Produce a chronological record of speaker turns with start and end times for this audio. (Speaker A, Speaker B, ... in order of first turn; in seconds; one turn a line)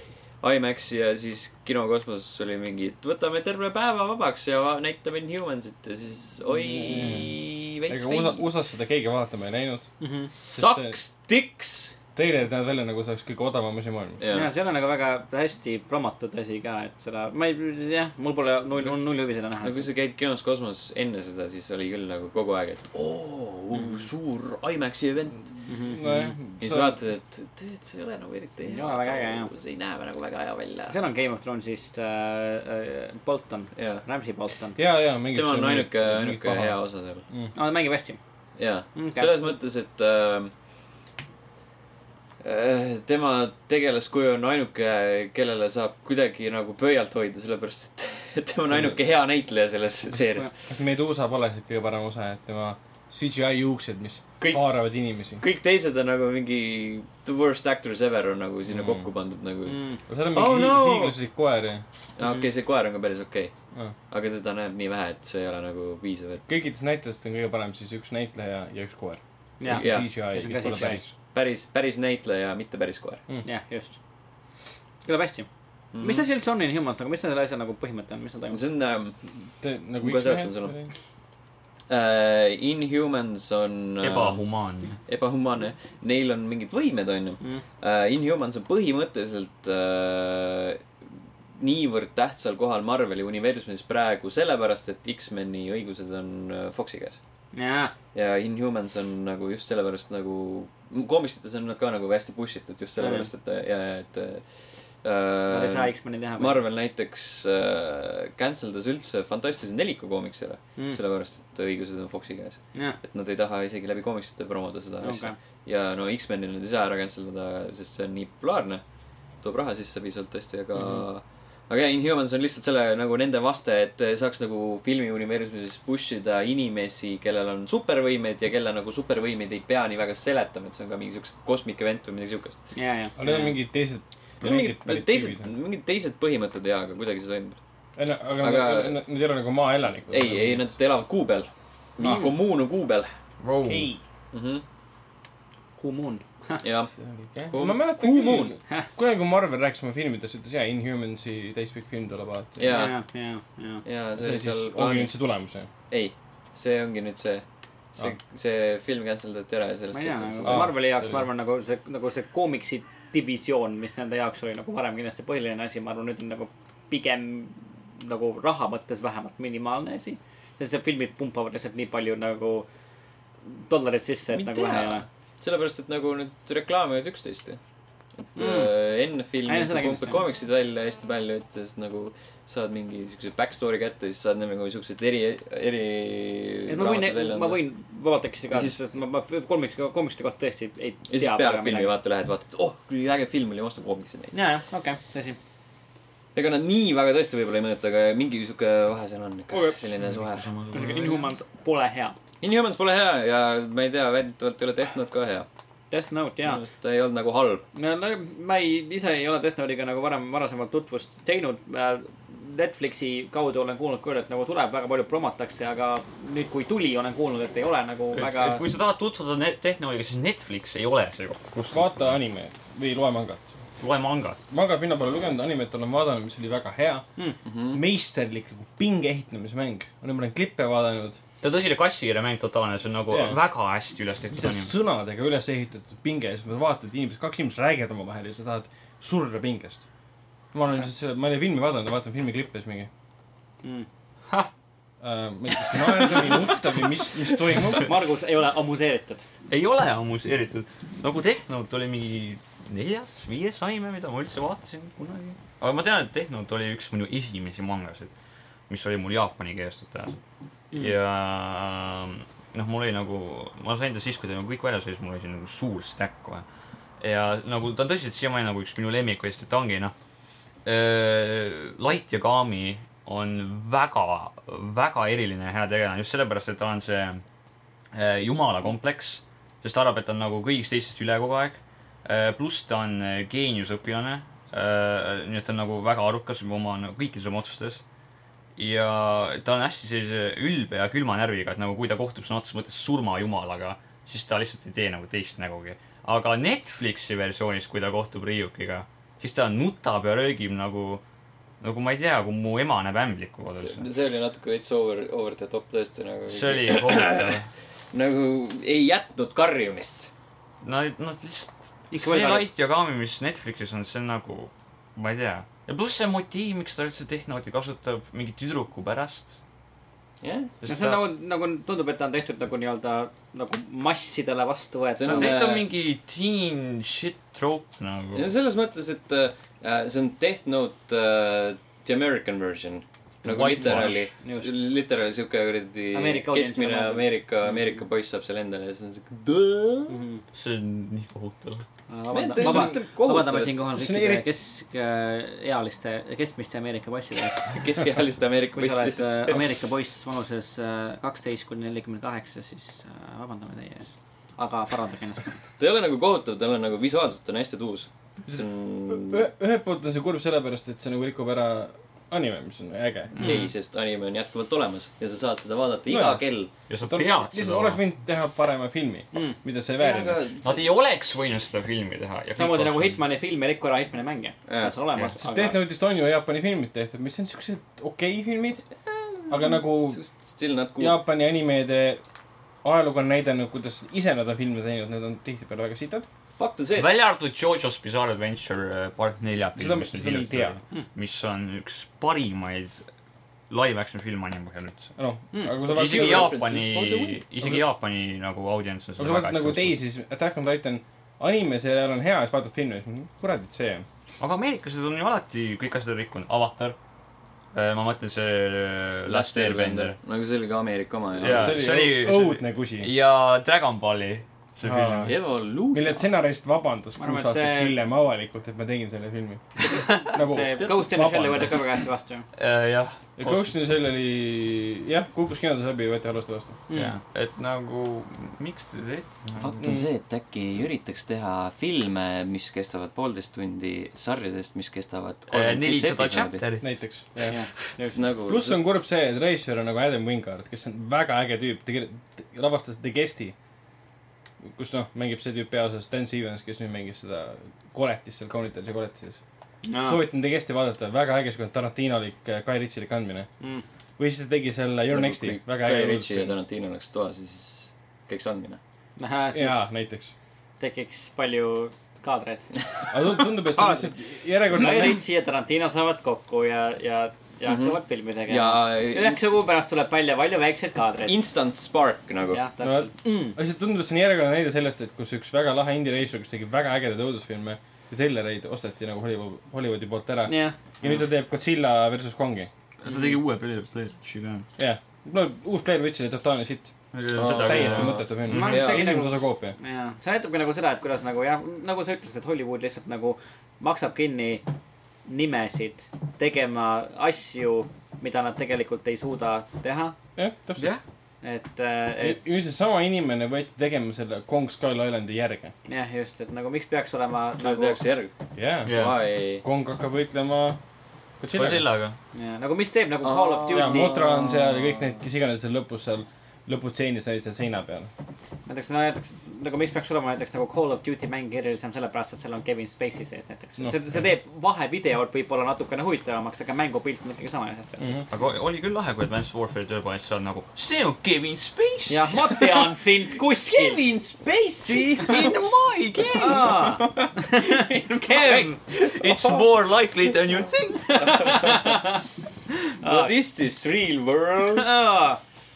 Speaker A: 0.4-8.4
Speaker B: 6.5-7.3
Speaker B: 7.9-9.9
Speaker C: 10.0-10.3
Speaker A: 10.3-12.0
Speaker B: 10.5-11.0
Speaker B: 12.1-14.2
Speaker A: 14.2-14.5
Speaker C: 14.3-19.9
Speaker A: 19.6-25.5
Speaker C: 25.6-26.4
Speaker B: 25.9-27.0
Speaker A: 26.6-31.0
Speaker C: 28.6-29.5
Speaker C: 30.9-34.8
Speaker A: 33.7-34.0
Speaker B: 34.8-36.8
Speaker A: 35.3-37.2
Speaker C: 37.5-38.2
Speaker A: 38.6-40.5
Speaker C: 38.9-39.3
Speaker A: 42.4-50.5
Speaker B: 48.7-49.0
Speaker B: 50.7-55.4
Speaker A: 55.4-59.8
Speaker B: 58.7-59.0
Speaker C: 59.6-60.0
Speaker B: 60.1-61.8
Speaker A: 60.3-61.1
Speaker A: 62.2-63.5
Speaker A: 64.1-66.4
Speaker B: 66.5-71.1
Speaker C: 69.6-71.0
Speaker A: 69.7-73.2
Speaker C: 73.4-73.9
Speaker C: 75.0-75.5
Speaker A: 75.9-76.3
Speaker C: 76.0-78.6
Speaker A: 78.5-79.2
Speaker B: 79.6-80.9
Speaker A: 80.0-80.7
Speaker A: 81.9-84.4
Speaker D: 84.0-85.0
Speaker A: 85.0-90.8
Speaker A: 91.6-97.2
Speaker C: 97.5-97.9
Speaker A: 98.1-104.4
Speaker C: 103.0-103.3
Speaker A: 105.0-118.8
Speaker C: 105.5-106.6
Speaker C: 115.0-115.3
Speaker A: 119.4-132.6
Speaker C: 132.7-133.5
Speaker B: 133.2-135.5
Speaker A: 134.4-137.6
Speaker B: 138.0-140.7
Speaker A: 138.4-139.0
Speaker A: 140.1-143.1
Speaker C: 142.0-142.3
Speaker D: 143.4-143.9
Speaker B: 143.6-144.0
Speaker A: 144.3-144.6
Speaker C: 145.8-146.6
Speaker A: 146.6-146.9
Speaker B: 146.9-152.7
Speaker A: 147.5-148.6
Speaker A: 152.6-152.9
Speaker C: 152.7-153.8
Speaker A: 153.8-155.2
Speaker B: 154.1-155.7
Speaker A: 155.9-157.4
Speaker A: 157.9-160.7
Speaker C: 159.9-172.7
Speaker B: 160.4-161.2
Speaker C: 173.4-175.0
Speaker A: 174.3-177.6
Speaker A: 178.2-187.6
Speaker C: 178.3-178.7
Speaker C: 179.4-180.2
Speaker C: 186.7-191.9
Speaker A: 188.5-188.8
Speaker A: 191.1-194.3
Speaker C: 194.3-195.4
Speaker A: 196.3-200.5
Speaker C: 199.5-199.8
Speaker D: 200.0-201.3
Speaker C: 200.7-202.2
Speaker A: 202.4-205.5
Speaker C: 205.9-206.6
Speaker A: 206.4-207.6
Speaker C: 207.7-218.6
Speaker D: 218.1-222.1
Speaker B: 221.7-223.5
Speaker D: 223.8-224.4
Speaker B: 224.5-227.1
Speaker A: 227.4-227.8
Speaker B: 227.7-231.2
Speaker D: 231.4-234.7
Speaker B: 233.1-233.4
Speaker B: 234.3-239.8
Speaker B: 240.5-242.9
Speaker B: 245.0-247.9
Speaker C: 247.8-249.2
Speaker D: 249.5-258.1
Speaker D: 258.7-260.2
Speaker D: 260.7-266.4
Speaker D: 267.0-269.9
Speaker D: 270.6-277.2
Speaker D: 277.9-287.8
Speaker D: 288.6-301.0
Speaker D: 301.6-303.9
Speaker A: 303.6-307.4
Speaker D: 306.3-307.5
Speaker A: 307.9-310.1
Speaker D: 310.6-319.4
Speaker C: 311.9-312.5
Speaker A: 320.2-320.5
Speaker D: 320.6-321.0
Speaker C: 320.6-325.4
Speaker A: 325.0-325.7
Speaker D: 325.1-328.3
Speaker A: 328.1-339.9
Speaker D: 333.2-334.1
Speaker C: 333.6-334.5
Speaker C: 335.9-337.1
Speaker C: 339.9-340.2
Speaker D: 340.3-341.6
Speaker C: 341.9-347.5
Speaker A: 342.1-343.6
Speaker B: 342.4-342.7
Speaker B: 343.7-344.3
Speaker A: 347.5-349.5
Speaker C: 348.5-355.4
Speaker A: 355.6-359.2
Speaker B: 358.2-363.2
Speaker C: 363.1-363.5
Speaker A: 363.2-366.5
Speaker B: 365.9-366.2
Speaker D: 366.7-367.8
Speaker B: 366.8-370.3
Speaker A: 369.8-370.7
Speaker D: 370.4-373.0
Speaker C: 372.4-375.6
Speaker A: 374.4-374.8
Speaker B: 375.2-378.6
Speaker A: 378.9-381.0
Speaker B: 379.3-380.0
Speaker B: 380.8-382.0
Speaker B: 382.6-386.1
Speaker A: 386.4-386.9
Speaker D: 386.8-392.8
Speaker B: 389.6-390.6
Speaker D: 393.5-394.9
Speaker B: 395.0-396.4
Speaker A: 395.7-397.2
Speaker D: 395.7-399.8
Speaker B: 399.0-403.9
Speaker D: 404.2-406.8
Speaker D: 407.5-409.9
Speaker A: 409.1-411.6
Speaker D: 411.2-415.1
Speaker B: 411.2-412.9
Speaker B: 414.6-415.2
Speaker A: 415.1-416.1
Speaker B: 415.7-419.4
Speaker C: 417.0-417.8
Speaker C: 419.6-422.2
Speaker B: 419.9-421.6
Speaker D: 422.4-423.5
Speaker B: 423.2-426.6
Speaker C: 426.7-427.0
Speaker D: 426.7-429.6
Speaker A: 429.4-436.4
Speaker B: 429.6-429.9
Speaker D: 435.3-436.7
Speaker B: 436.6-437.4
Speaker C: 437.3-438.0
Speaker A: 437.8-438.6
Speaker B: 438.3-443.3
Speaker B: 444.4-449.2
Speaker C: 449.6-450.0
Speaker B: 449.8-453.3
Speaker B: 454.0-456.3
Speaker A: 454.9-458.6
Speaker C: 459.0-459.7
Speaker B: 459.3-460.1
Speaker C: 460.6-462.5
Speaker B: 462.9-465.0
Speaker A: 463.6-463.9
Speaker C: 464.5-471.1
Speaker A: 467.4-469.3
Speaker A: 471.1-472.4
Speaker C: 472.3-473.4
Speaker B: 472.6-482.5
Speaker C: 480.3-480.6
Speaker D: 482.8-484.5
Speaker C: 482.9-483.1
Speaker B: 484.6-489.5
Speaker D: 486.9-488.7
Speaker A: 487.2-488.9
Speaker C: 488.3-494.4
Speaker C: 495.1-499.9
Speaker B: 500.1-500.7
Speaker C: 501.2-502.2
Speaker B: 502.0-505.5
Speaker C: 505.7-507.8
Speaker A: 507.4-508.1
Speaker B: 508.3-508.8
Speaker D: 508.6-509.0
Speaker A: 508.6-509.4
Speaker B: 509.4-510.6
Speaker B: 511.2-511.7
Speaker D: 511.3-512.0
Speaker C: 512.1-514.0
Speaker A: 513.0-515.0
Speaker B: 513.5-517.9
Speaker C: 518.5-527.8
Speaker B: 527.8-528.0
Speaker D: 528.1-532.5
Speaker C: 531.9-533.8
Speaker A: 533.5-535.4
Speaker D: 535.0-536.6
Speaker C: 536.1-538.6
Speaker A: 536.2-539.4
Speaker D: 538.8-541.3
Speaker C: 540.9-542.0
Speaker A: 541.0-541.6
Speaker C: 542.8-543.1
Speaker A: 542.8-544.7
Speaker C: 544.5-545.2